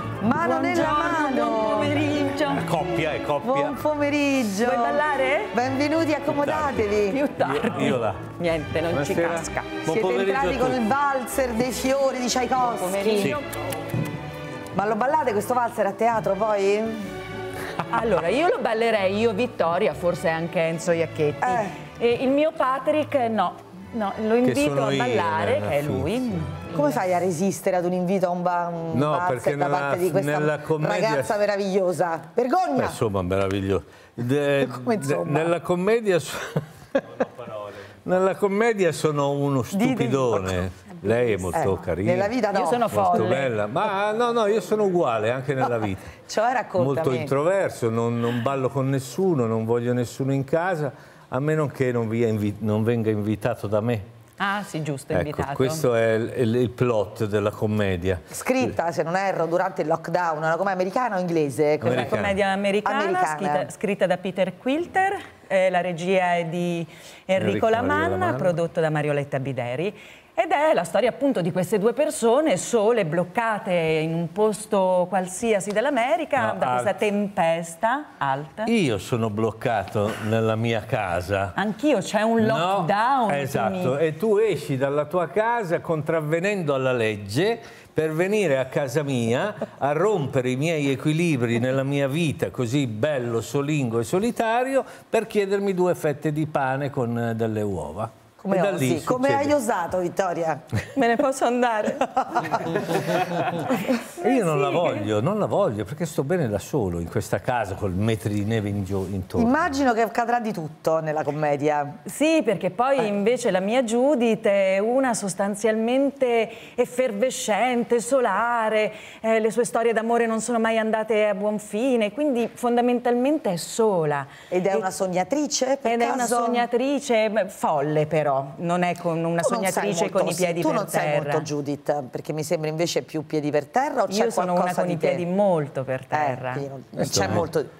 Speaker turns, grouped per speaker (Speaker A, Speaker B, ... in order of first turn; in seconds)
Speaker A: 0.2-1.9, 3.4-7.2, 9.9-13.4, 14.7-17.1, 21.4-21.8, 26.7-33.0, 34.6-35.5, 39.7-40.6, 41.5-43.3, 46.3-47.3, 58.3-62.2, 62.8-63.7, 98.4-100.6, 109.3-112.0, 124.5-126.7, 129.4-135.2, 136.1-137.7
Speaker B: 0.4-2.6, 4.6-5.5, 7.1-9.7, 12.6-13.4, 17.9-27.0, 42.5-43.5, 54.4-55.8, 61.9-78.7, 81.5-84.0, 100.9-102.6, 103.8-105.0, 112.0-124.9, 125.8-131.5, 134.1-136.7
Speaker C: 2.6-3.8, 6.3-8.2, 8.9-10.8, 24.4-26.4, 28.9-31.4, 32.8-42.3, 42.9-46.1, 46.8-54.0, 55.1-58.7, 61.8-62.4, 67.3-68.5, 76.4-77.0, 78.7-81.5, 82.4-99.5, 104.2-109.6, 137.0-137.5